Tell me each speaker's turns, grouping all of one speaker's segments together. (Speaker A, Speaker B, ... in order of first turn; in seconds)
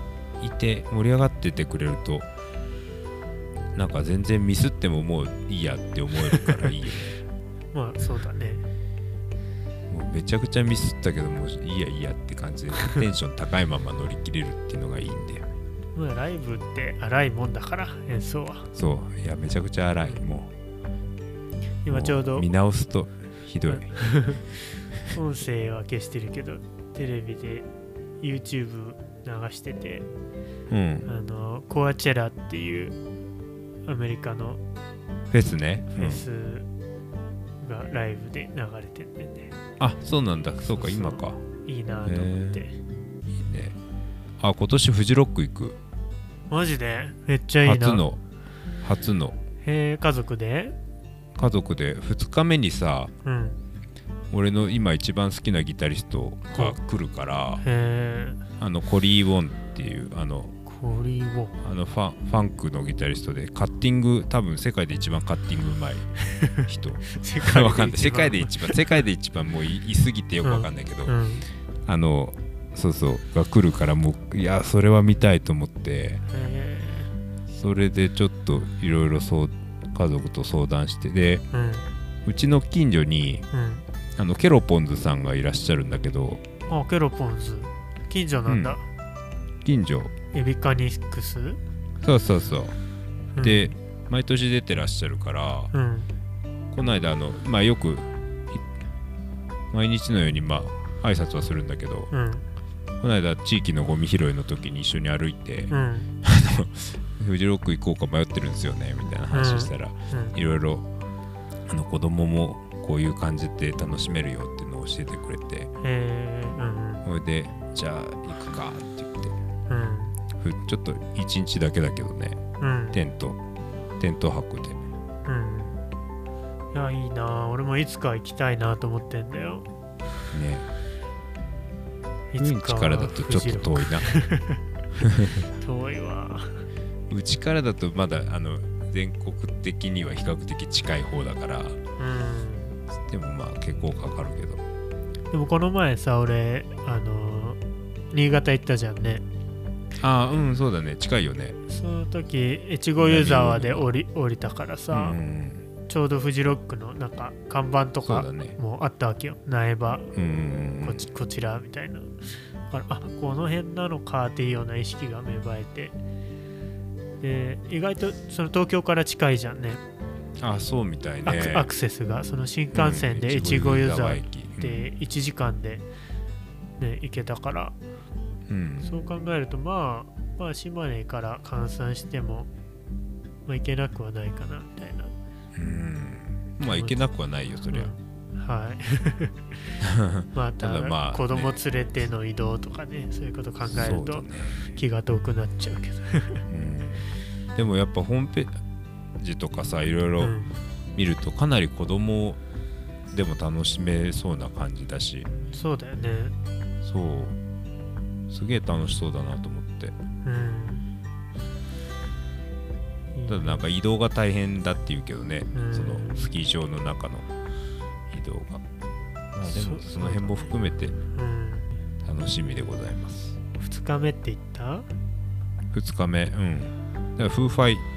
Speaker A: 0.4-2.2, 3.8-7.2, 9.9-15.5, 18.7-20.5, 21.9-24.2, 30.7-31.1, 35.3-36.2, 39.8-41.4, 42.0-42.6, 43.4-43.8, 44.4-45.8, 47.6-48.2, 48.8-49.4, 51.4-53.1, 54.3-57.6, 58.6-60.5, 61.6-71.1, 71.8-76.2, 77.5-81.4, 82.2-83.4, 84.2-86.4, 88.5-88.8, 89.6-90.1, 92.0-92.8, 93.4-95.7, 96.7-98.6, 99.7-102.1, 103.0-110.9, 111.7-115.7, 117.0-119.3, 120.4-122.4, 122.9-123.4, 124.0-124.8, 130.3-130.7, 132.4-134.1, 137.1-141.8, 143.0-144.6, 150.0-151.6, 153.0-153.9, 154.9-155.6, 158.0-158.6, 160.1-161.1, 170.4-171.7, 172.7-174.9, 178.5-178.9, 185.6-187.9, 189.8-191.6, 193.6-194.7, 196.5-198.5, 199.2-200.3, 200.9-202.4, 203.1-205.3, 206.8-207.4, 208.3-209.9, 213.3-217.3, 218.1-218.6, 219.3-221.0, 222.0-223.4, 225.7-227.8
Speaker B: 7.7-8.7, 15.9-18.7, 21.8-22.5, 23.7-24.4, 25.1-27.7, 28.2-30.1, 31.0-33.0, 33.8-34.6, 35.9-36.7, 37.6-39.5, 40.6-42.8, 46.5-48.0, 49.6-50.8, 53.2-53.6, 57.6-58.4, 60.6-61.6, 66.3-68.8, 70.4-71.5, 76.3-77.1, 81.5-81.9, 83.5-83.8, 86.7-88.8, 90.3-91.6, 93.3-93.7, 95.7-96.1, 102.1-102.5, 105.7-106.1, 109.3-110.3, 115.8-117.1, 119.7-120.2, 122.6-123.0, 125.2-125.8, 126.7-129.7, 132.3-134.6, 135.6-136.7, 142.0-142.8, 145.3-147.6, 148.1-149.2, 151.7-155.2, 155.9-160.1, 160.8-166.0, 167.2-169.8, 171.2-175.8, 176.8-177.7, 178.8-182.5, 183.4-185.1, 186.6-187.0, 187.7-189.8, 190.3-196.4, 200.2-200.6, 205.5-206.3, 210.2-210.9, 213.1-213.6, 215.5-216.3, 219.4-220.5, 221.1-221.8, 223.6-224.9